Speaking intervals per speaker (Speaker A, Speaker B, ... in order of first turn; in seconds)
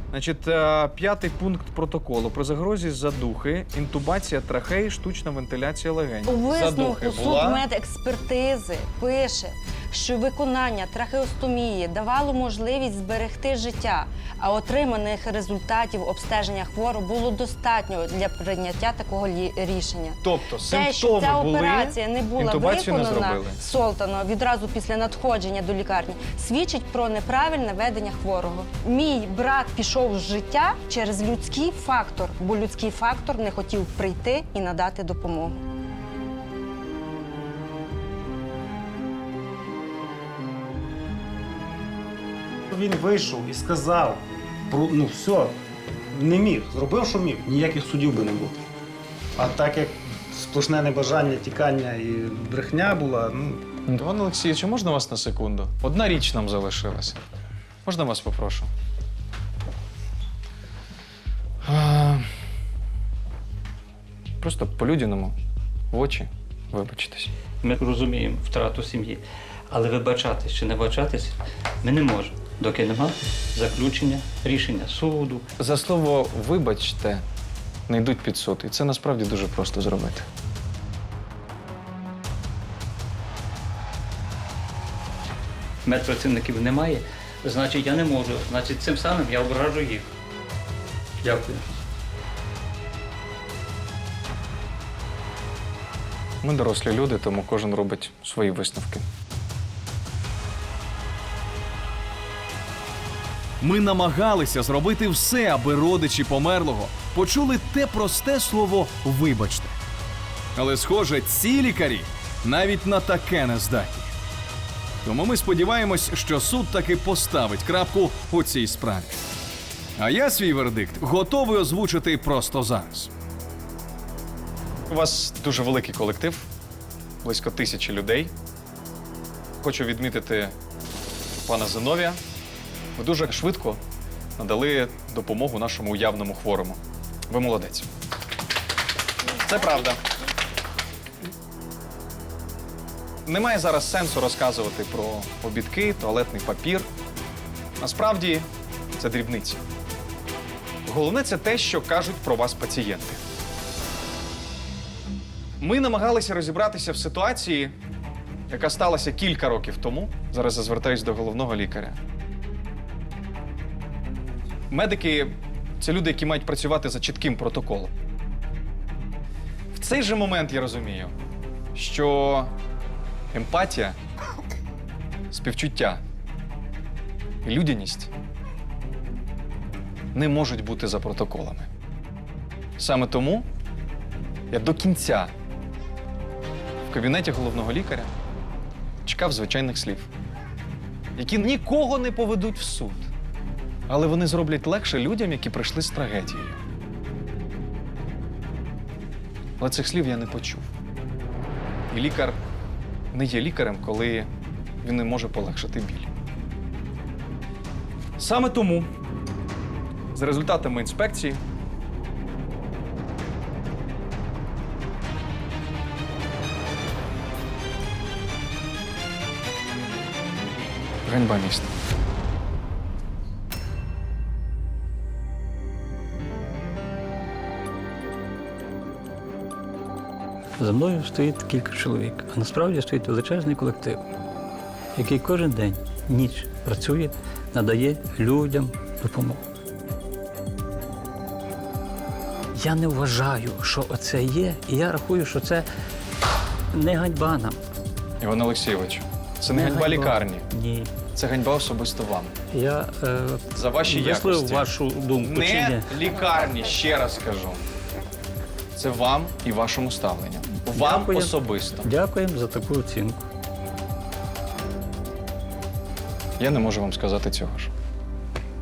Speaker A: 0.1-7.6, 20.2-23.6, 53.9-57.2, 57.9-58.7, 61.6-62.3, 64.4-65.3, 65.9-67.3, 75.6-77.2, 77.9-80.3, 96.4-99.0, 124.9-126.5, 127.2-128.3, 129.6-130.5, 131.4-132.2, 133.0-133.8, 134.4-137.9, 139.3-140.0, 143.3-146.9, 147.8-149.6, 150.9-153.2, 155.6-157.7, 158.5-162.0, 164.7-167.9, 169.7-171.1, 171.8-172.5, 173.3-174.0, 175.3-176.0, 177.4-178.1, 180.1-181.7, 182.8-183.5, 184.5-185.3, 186.9-188.1, 189.1-190.1, 191.2-193.1, 193.9-196.6, 199.6-200.7, 201.9-202.4, 203.1-204.3, 204.8-206.1, 208.2-208.9, 210.1-211.4, 221.1-221.7, 248.2-250.5, 251.0-252.3, 253.5-257.6, 258.8-261.9, 266.4-267.7
Speaker B: 6.3-35.6
Speaker C: 42.7-45.5, 46.1-48.6, 49.4-53.6
Speaker D: 67.6-75.4, 85.8-90.1, 91.2-91.8, 230.6-234.0, 235.0-239.4, 242.5-245.7, 246.7-247.6, 249.5-251.0, 252.5-255.9, 260.7-263.2
Speaker E: 103.6-109.8, 110.6-114.1, 115.0-119.2, 120.0-123.1